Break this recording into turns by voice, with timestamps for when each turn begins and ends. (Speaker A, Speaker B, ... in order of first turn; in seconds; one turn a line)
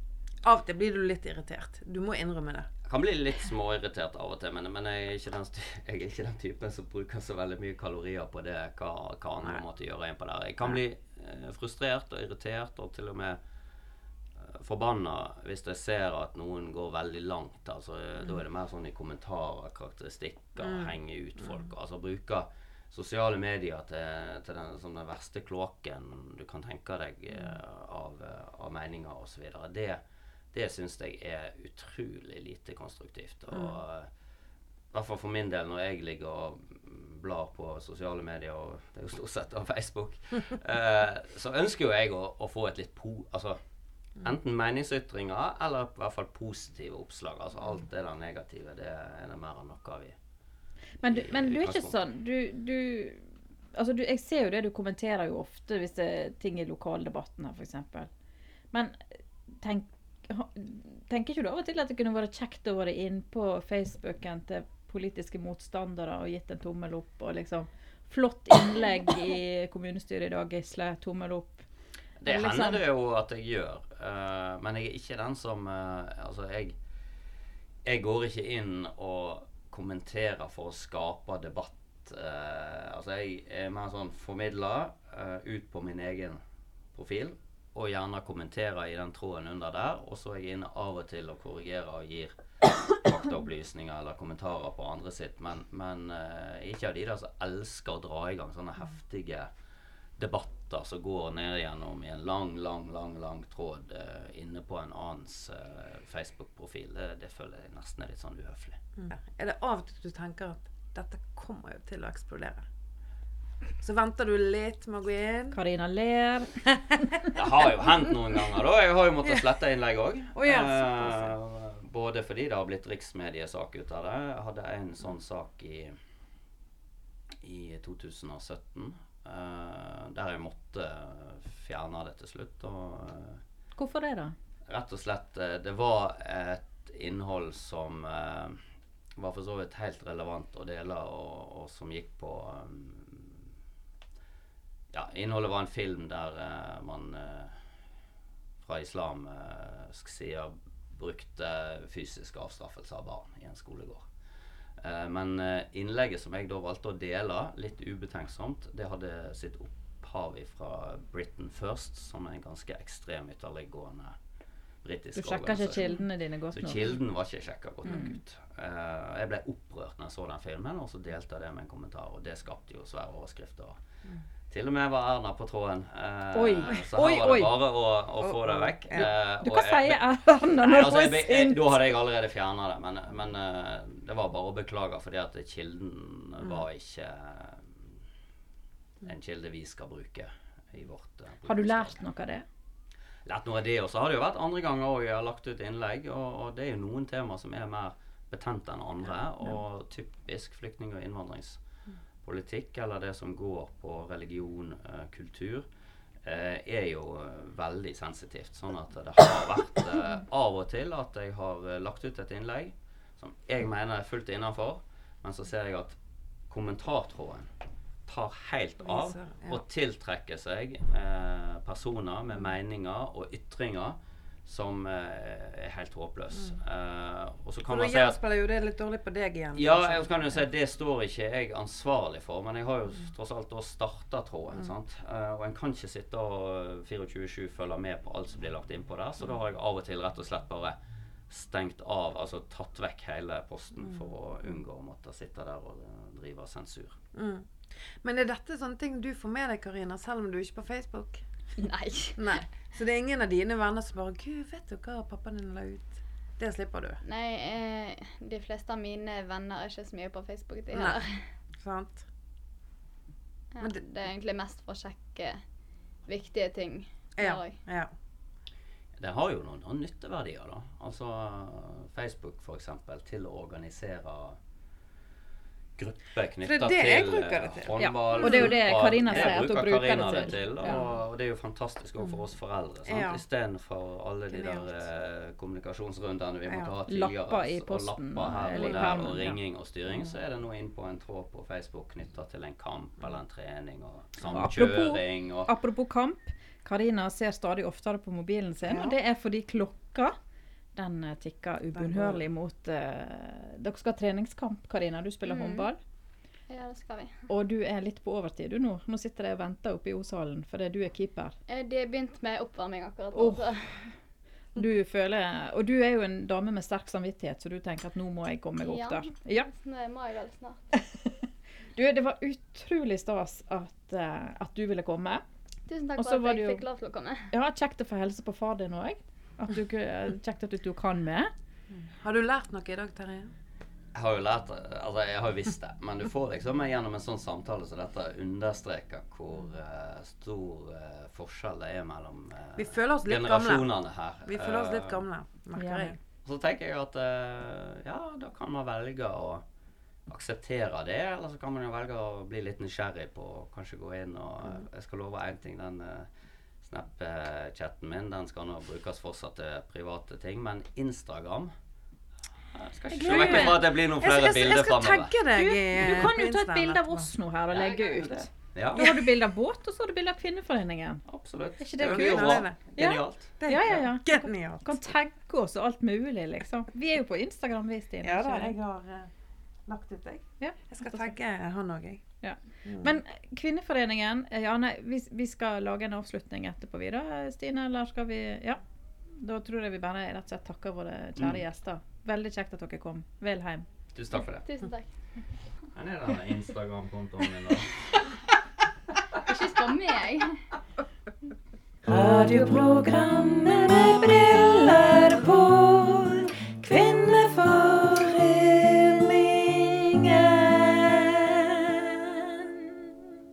Speaker A: 0.4-2.7
Speaker B: 2.9-13.4
Speaker B: 14.4-30.0
Speaker A: 20.6-21.5
Speaker A: 27.3-27.6
Speaker B: 30.5-34.1
Speaker A: 33.5-33.8
Speaker B: 34.9-43.6
Speaker B: 44.2-50.2
Speaker C: 51.0-58.1
Speaker B: 51.1-52.0
Speaker C: 58.7-71.7
Speaker B: 72.2-76.8
Speaker C: 72.2-72.8
Speaker B: 77.8-86.4
Speaker B: 86.9-99.5
Speaker B: 100.2-108.8
Speaker A: 109.0-112.7
Speaker A: 113.8-115.6
Speaker C: 115.5-117.0
Speaker B: 117.3-126.0
Speaker A: 120.3-121.3
Speaker B: 127.4-133.4
Speaker C: 133.8-134.3
Speaker B: 134.7-138.6
Speaker B: 139.2-143.4
Speaker B: 144.9-147.6
Speaker B: 148.6-154.1
Speaker B: 154.8-164.2
Speaker B: 164.8-165.9
Speaker C: 165.2-167.0
Speaker B: 166.5-173.8
Speaker C: 167.8-168.2
Speaker B: 174.5-187.9
Speaker C: 176.3-177.5
Speaker A: 178.2-179.1
Speaker C: 179.0-181.8
Speaker B: 189.0-192.0
Speaker C: 191.5-192.4
Speaker B: 193.2-201.6
Speaker B: 202.2-205.7
Speaker B: 206.2-217.5
Speaker B: 218.1-228.2
Speaker A: 218.8-219.6
Speaker A: 227.6-230.4
Speaker B: 229.5-240.8
Speaker B: 241.3-247.0
Speaker A: 247.2-251.2
Speaker D: 251.6-252.4
Speaker A: 252.2-257.0
Speaker D: 257.0-261.2
Speaker A: 260.7-261.0
Speaker A: 261.6-262.1
Speaker D: 263.6-265.4
Speaker D: 266.1-267.6
Speaker A: 267.2-267.9
Speaker B: 269.0-274.4
Speaker B: 275.8-295.5
Speaker A: 276.4-278.6
Speaker C: 277.8-280.9
Speaker A: 282.9-283.2
Speaker A: 284.3-284.8
Speaker A: 286.5-286.7
Speaker C: 286.9-289.4
Speaker A: 288.6-289.0
Speaker C: 294.2-300.2
Speaker A: 298.7-299.0
Speaker C: 300.8-305.8
Speaker A: 301.7-302.2
Speaker D: 305.2-305.7
Speaker D: 306.5-307.2
Speaker C: 307.3-311.4
Speaker D: 311.5-313.9
Speaker C: 313.1-313.9
Speaker C: 314.6-319.5
Speaker D: 318.6-320.8
Speaker C: 320.8-321.2
Speaker C: 321.8-325.2
Speaker D: 325.7-327.3
Speaker C: 326.0-326.6
Speaker C: 327.3-331.3
Speaker A: 331.7-333.3
Speaker B: 333.9-345.0
Speaker A: 342.6-343.7
Speaker A: 344.2-346.0
Speaker C: 345.6-346.0
Speaker B: 346.2-349.4
Speaker B: 350.1-356.1
Speaker B: 356.6-361.5
Speaker B: 362.5-365.1
Speaker A: 362.9-367.1
Speaker C: 363.0-363.6
Speaker C: 365.4-371.1
Speaker B: 367.6-368.9
Speaker B: 371.1-373.3
Speaker C: 371.6-378.6
Speaker A: 371.8-374.8
Speaker A: 378.0-379.1
Speaker A: 379.7-382.1
Speaker C: 380.4-381.1
Speaker C: 382.2-388.6
Speaker A: 382.6-382.9
Speaker C: 389.2-393.7
Speaker B: 393.9-394.5
Speaker D: 394.4-394.9
Speaker B: 395.8-398.0
Speaker D: 399.3-400.4
Speaker C: 401.9-412.6